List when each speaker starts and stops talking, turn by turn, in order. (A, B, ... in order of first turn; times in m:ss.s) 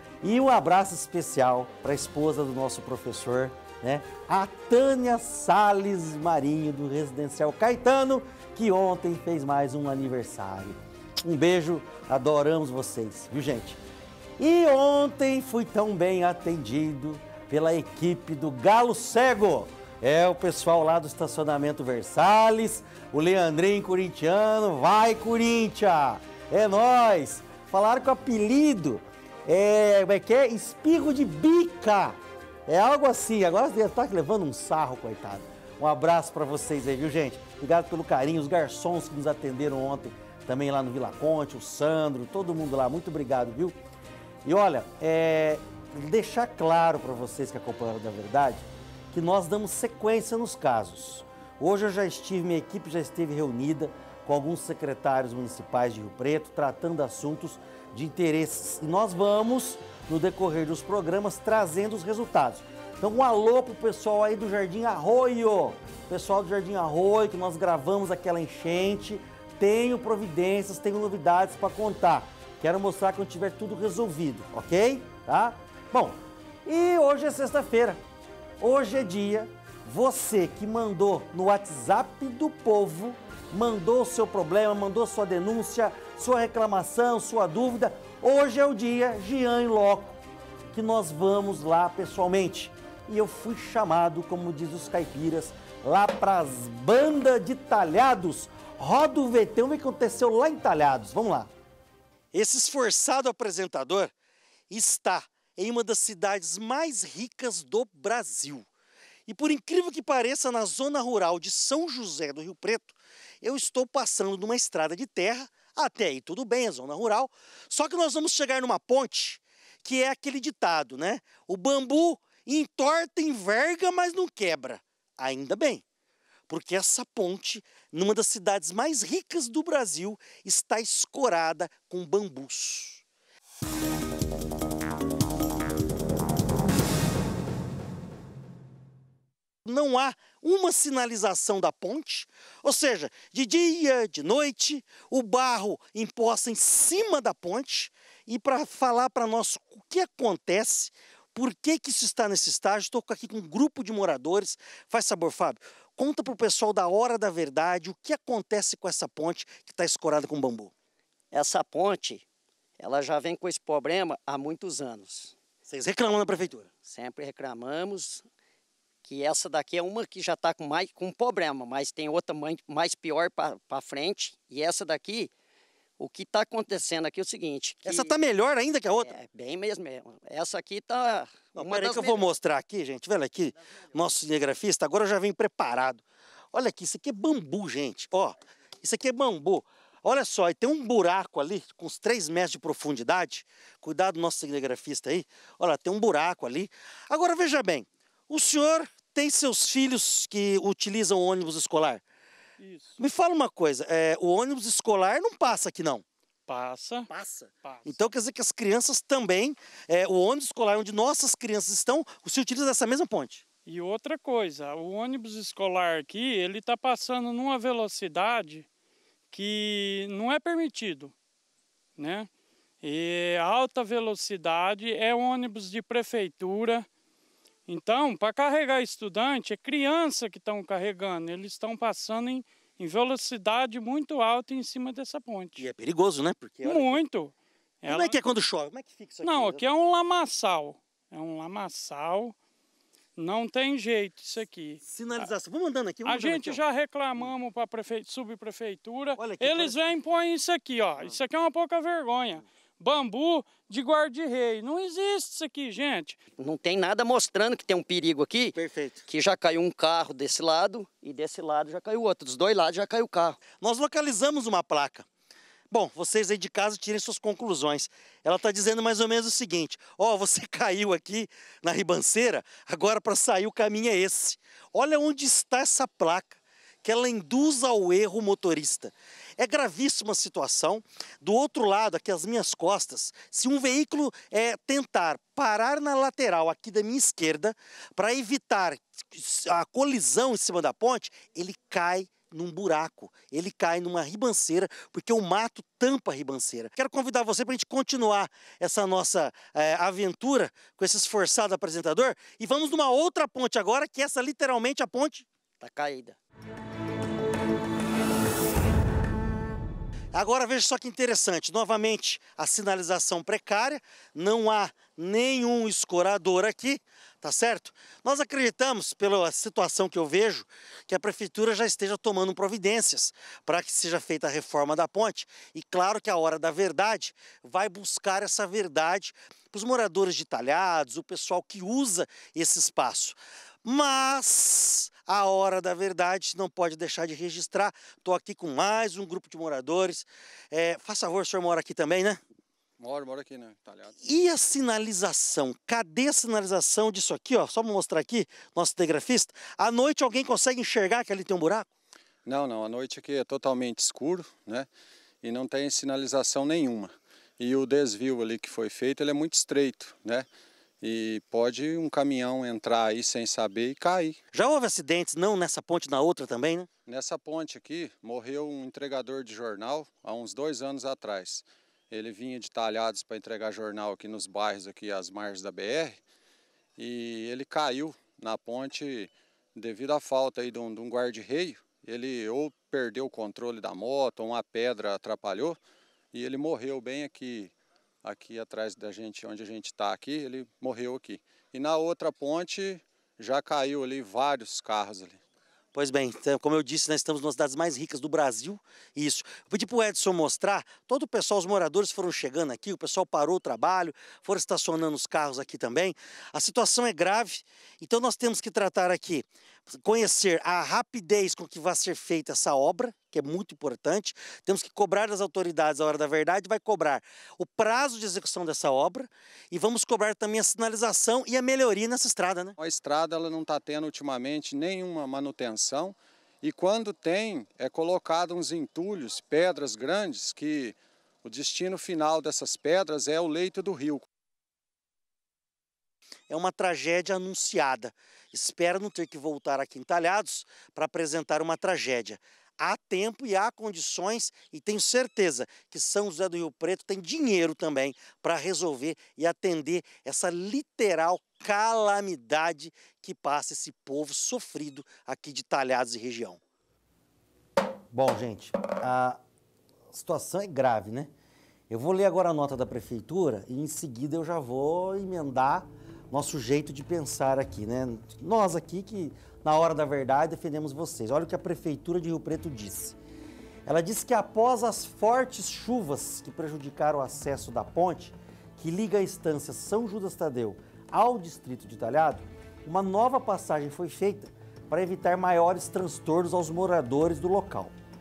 0:00.2-0:13.8 A
0:14.4-0:43.8 A
0:44.4-1:18.0 A
1:18.6-1:30.2 A
1:30.7-1:41.5 A
1:42.3-1:44.1 A
1:44.7-1:48.7 A
1:49.3-2:05.8 A
2:06.5-2:13.0 A
2:19.6-2:40.7 A
2:41.3-2:42.2 B
2:42.8-2:45.4 B
2:45.7-2:46.7 A
2:46.9-2:48.3 B
2:49.0-2:55.3 B
2:56.0-2:58.1 B
2:57.8-2:59.1 A
2:59.0-3:02.3 B
3:01.6-3:22.0 A
3:22.6-3:23.0 C
3:23.0-3:26.0 A
3:26.5-3:27.1 C
3:27.1-3:33.4 A
3:27.6-3:28.0 C
3:33.7-3:38.7 C
3:39.3-3:41.2 C
3:42.0-3:42.3 C
3:42.8-3:46.9 C
3:47.7-3:55.7 C
3:55.6-3:57.0 A
3:56.6-3:58.2 C
3:57.9-3:59.6 A
3:59.2-4:02.4 C
4:03.2-4:05.3 C
4:04.8-4:06.6 A
4:06.0-4:16.2 C
4:09.2-4:09.8 A
4:16.4-4:23.4 B
4:18.6-4:19.0 A
4:23.6-4:25.1 A
4:25.7-5:05.3 A
5:05.6-5:06.2 B
5:10.1-5:42.2 A
5:42.8-5:43.9 D
5:44.0-5:51.7 A
5:52.2-5:54.7 D
5:55.2-6:00.3 D
6:00.8-6:04.2 D
6:04.3-6:06.7 A
6:06.9-6:16.0 D
6:16.8-6:25.6 D
6:26.1-6:27.5 D
6:28.0-6:35.2 D
6:35.7-7:02.6 A
7:02.6-7:14.0 D
7:16.3-7:36.4 A
7:37.9-7:39.2 A
7:39.9-7:41.1 A
7:41.7-7:53.0 A
7:53.7-8:07.7 A